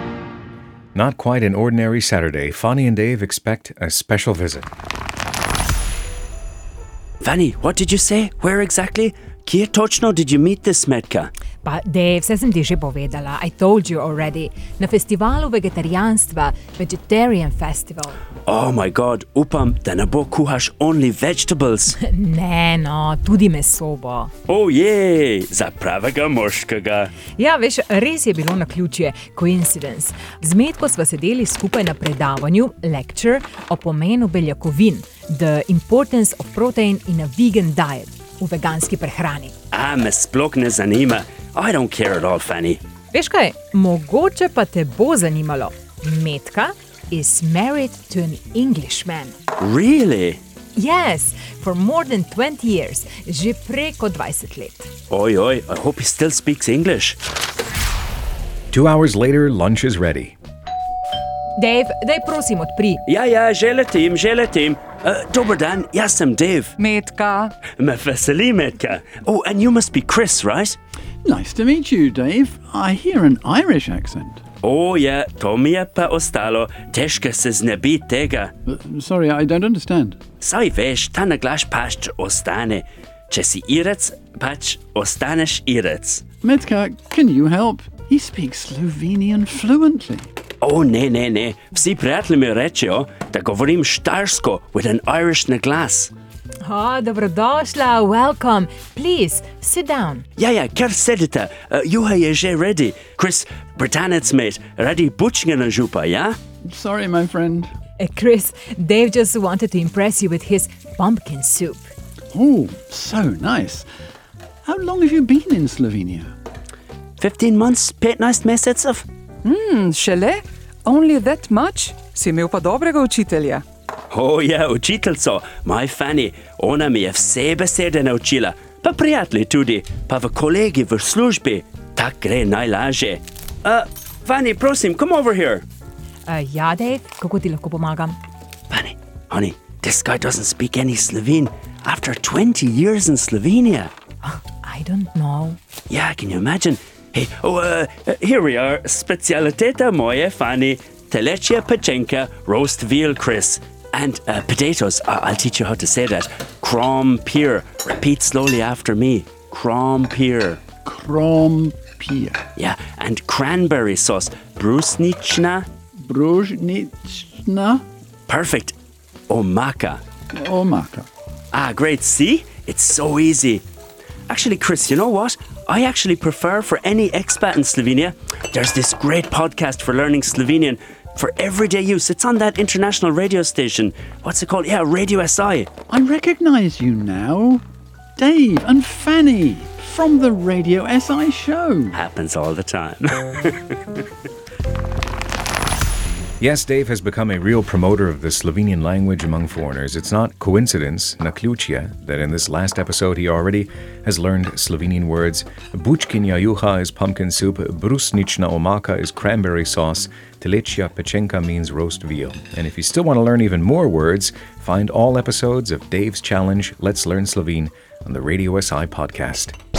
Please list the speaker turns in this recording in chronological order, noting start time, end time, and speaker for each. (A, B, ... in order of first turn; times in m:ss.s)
0:00.9-0:04.7 A
0:07.2-0:11.3 B
0:11.6-0:18.2 C
0:18.4-0:22.0 B
0:22.0-0:24.3 C
0:24.5-0:27.1 B
0:27.4-0:39.5 C
0:39.7-0:42.8 B
0:43.1-0:49.3 C
0:49.6-0:50.4 B
0:50.7-0:54.9 C
0:55.1-0:57.2 B
0:58.7-1:00.4 A
1:01.6-1:03.0 C
1:03.0-1:06.7 B
1:06.8-1:07.5 D
1:07.8-1:10.8 B
1:11.2-1:14.4 E
1:14.6-1:18.5 B
1:18.6-1:20.2 E
1:20.4-1:26.2 B
1:26.4-1:30.3 E
1:30.6-1:36.1 B
1:36.6-1:40.2 C
1:40.4-1:46.4 B
1:46.6-1:47.7 E
1:48.0-1:51.9 C
1:52.3-1:53.9 E
1:54.6-1:56.3 E
1:57.2-1:59.0 B
1:59.4-2:03.6 D
2:04.1-2:15.6 B
2:16.3-2:18.2 C
2:18.7-2:23.9 B
2:24.2-2:25.6 C
2:25.9-2:40.6 B
2:40.8-2:42.4 E
2:42.6-2:45.7 B
2:46.1-2:47.8 E
2:48.3-2:48.7 B
2:49.3-2:50.0 B
2:50.3-2:51.1 E
2:51.5-2:53.6 B
2:54.3-3:05.7 B
3:05.9-3:07.6 E
3:08.2-3:12.0 E
3:11.9-3:13.8 B
3:16.4-3:39.5 A